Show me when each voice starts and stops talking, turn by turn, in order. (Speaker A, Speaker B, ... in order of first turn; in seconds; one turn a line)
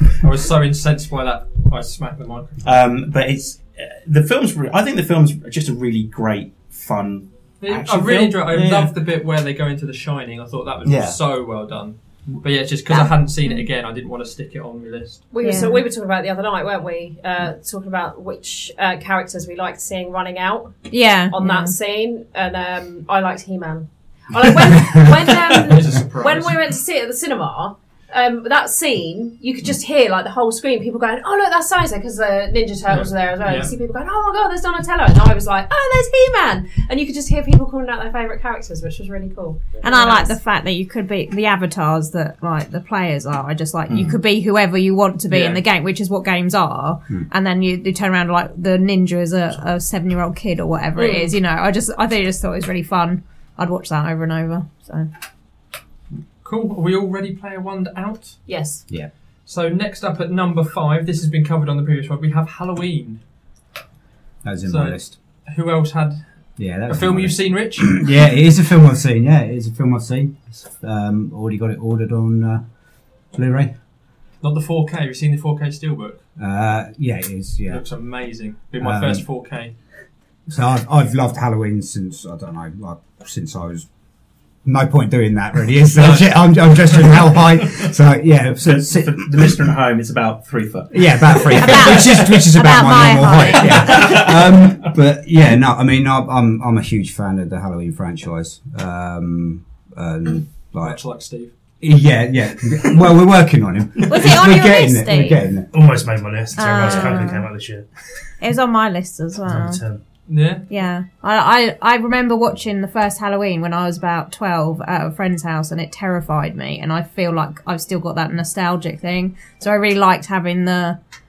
Speaker A: 0.2-2.6
Speaker B: 2.6-8.9
Speaker A: 7.6-15.3
Speaker B: 10.8-11.2
Speaker C: 12.9-13.7
Speaker D: 15.3-40.4
Speaker C: 15.4-15.8
Speaker C: 20.9-21.7
Speaker A: 25.5-26.6
Speaker A: 32.9-33.7
Speaker C: 39.8-55.1
Speaker A: 45.3-45.6
Speaker D: 51.0-51.3
Speaker A: 56.4-58.4
Speaker D: 58.5-58.8
Speaker A: 59.5-63.2
Speaker E: 64.4-65.2
Speaker A: 64.7-66.2
Speaker E: 66.6-72.7
Speaker A: 66.9-68.0
Speaker E: 73.3-73.8
Speaker A: 74.4-76.2
Speaker E: 76.4-77.8
Speaker A: 77.7-79.7
Speaker E: 78.8-79.2
Speaker E: 80.5-83.9
Speaker E: 84.6-89.5
Speaker A: 86.0-87.4
Speaker B: 88.6-92.2
Speaker E: 90.9-101.0
Speaker C: 91.5-94.2
Speaker B: 93.6-94.6
Speaker A: 100.8-101.5
Speaker E: 101.8-105.7
Speaker C: 104.1-105.4
Speaker F: 105.7-107.9
Speaker C: 106.6-107.5
Speaker C: 108.4-109.8
Speaker F: 109.5-110.0
Speaker A: 110.3-110.7
Speaker C: 110.7-121.0